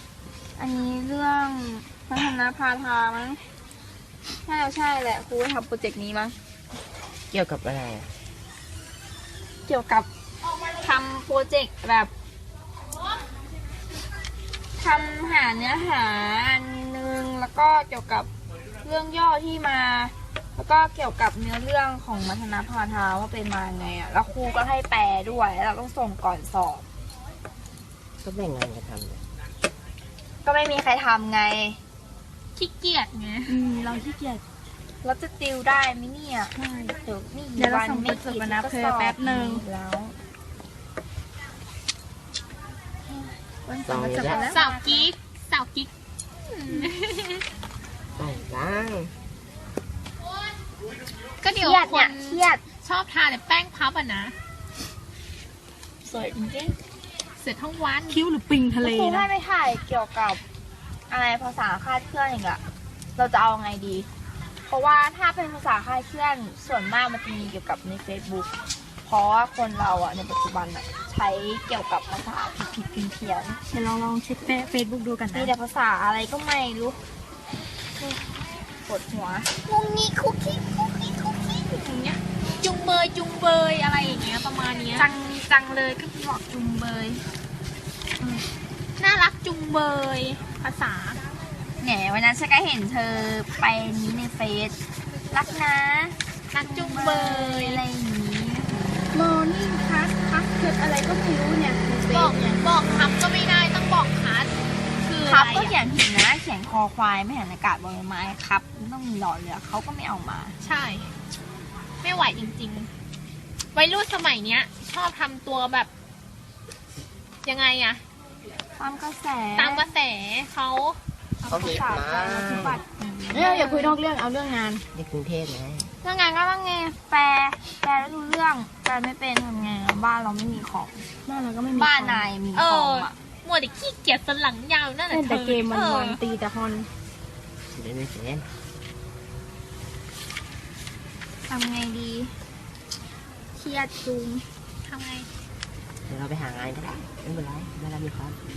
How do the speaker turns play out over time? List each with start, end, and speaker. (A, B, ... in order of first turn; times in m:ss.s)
0:00.6-0:03.4 A
0:04.5-0:06.4 A
0:07.3-0:08.1 B
0:09.7-0:10.1 A
0:10.8-0:12.1 A
0:14.8-0:18.3 A
0:18.8-0:26.8 A
0:28.2-0:29.2 B
0:30.4-0:31.8 A
0:32.6-0:33.6 C
0:33.5-0:34.4 D
0:35.0-0:40.2 A
0:36.6-0:37.0 D
0:37.6-0:39.6 D
0:43.1-0:44.7 A
0:43.8-0:44.4 B
0:44.1-0:45.0 D
0:44.5-0:45.9 C
0:46.5-0:47.4 C
0:48.2-0:49.1 B
0:51.4-0:54.4 C
0:51.6-0:52.6 A
0:56.0-0:56.8 A
0:57.4-0:58.2 C
0:58.1-0:59.3 D
0:58.8-1:00.4 A
1:01.1-1:02.6 A
1:03.2-1:04.1 A
1:04.7-1:08.5 A
1:09.0-1:13.6 A
1:13.7-1:15.5 D
1:15.3-1:17.0 A
1:18.9-1:19.5 A
1:19.7-1:21.0 C
1:20.7-1:22.2 A
1:22.6-1:25.1 C
1:25.0-1:27.2 A
1:29.0-1:31.2 C
1:31.8-1:34.8 A
1:35.3-1:39.1 A
1:36.5-1:37.8 C
1:39.1-1:42.6 D
1:42.1-1:44.5 C
1:45.0-1:45.8 C
1:45.2-1:50.6 A
1:50.6-1:51.1 C
1:52.0-1:52.9 C
1:53.7-1:55.9 C
1:57.4-1:58.0 C
1:58.8-1:59.9 A
1:59.6-2:01.0 C
2:01.4-2:02.8 B
2:01.5-2:03.7 A
2:02.2-2:04.8 D
2:03.4-2:03.9 C
2:04.9-2:05.9 B
2:06.0-2:11.1 A
2:11.2-2:12.3 D
2:11.7-2:13.2 A
2:12.5-2:16.2 C
2:15.1-2:16.9 D
2:17.7-2:18.5 B
2:21.5-2:22.3 A
2:23.6-2:24.5 A
2:24.8-2:25.3 C
2:26.1-2:28.4 B